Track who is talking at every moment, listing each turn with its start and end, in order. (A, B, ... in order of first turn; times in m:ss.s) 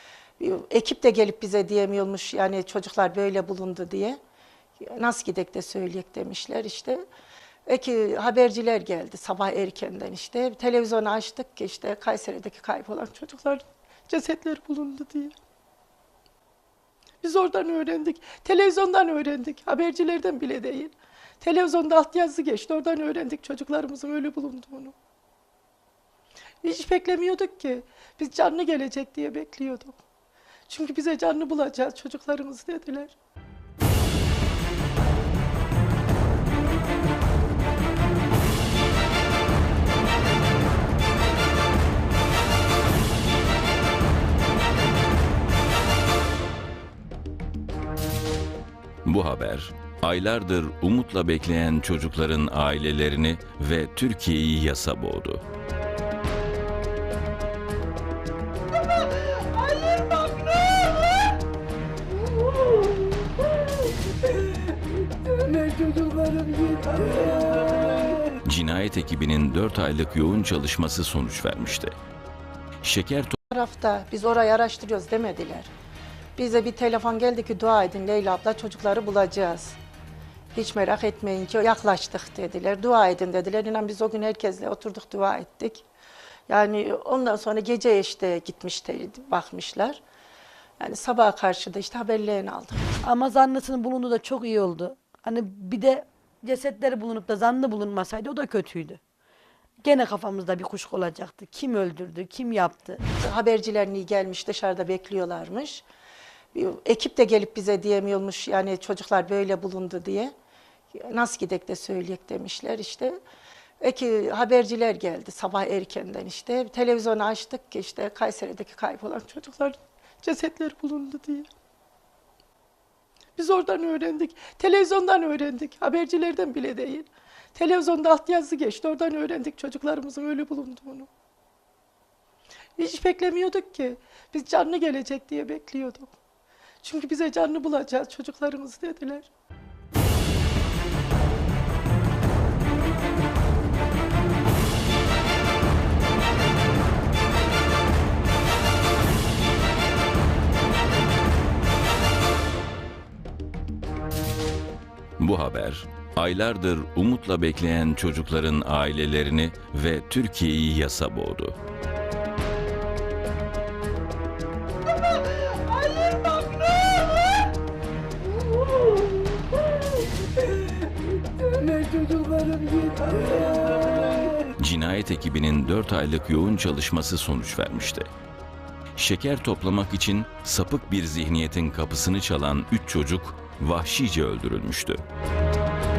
0:00.4-0:04.2 A
0:04.8-0:07.0 A
0:07.7-0:15.4 A
0:17.2-0:25.0 A
0:26.6-0:30.0 A
0:30.7-0:33.2 A
0:49.0-0:55.4 B
1:05.8-1:06.3 C
1:08.4-1:11.9 B
1:12.8-1:13.4 B
1:13.5-1:15.7 A
1:16.4-1:19.8 A
1:20.6-1:25.9 A
1:26.5-1:30.0 A
1:30.8-1:32.9 A
1:33.0-1:39.0 C
1:39.8-1:43.0 C
1:43.1-1:45.8 A
1:46.5-1:50.3 A
1:50.9-1:53.2 A
1:53.8-2:01.5 A
2:03.4-2:11.1 A
2:12.8-2:16.1 A
2:16.8-2:19.3 A
2:35.2-2:41.6 B
2:51.8-2:53.2 C
2:54.4-2:58.1 B
2:59.0-3:05.0 B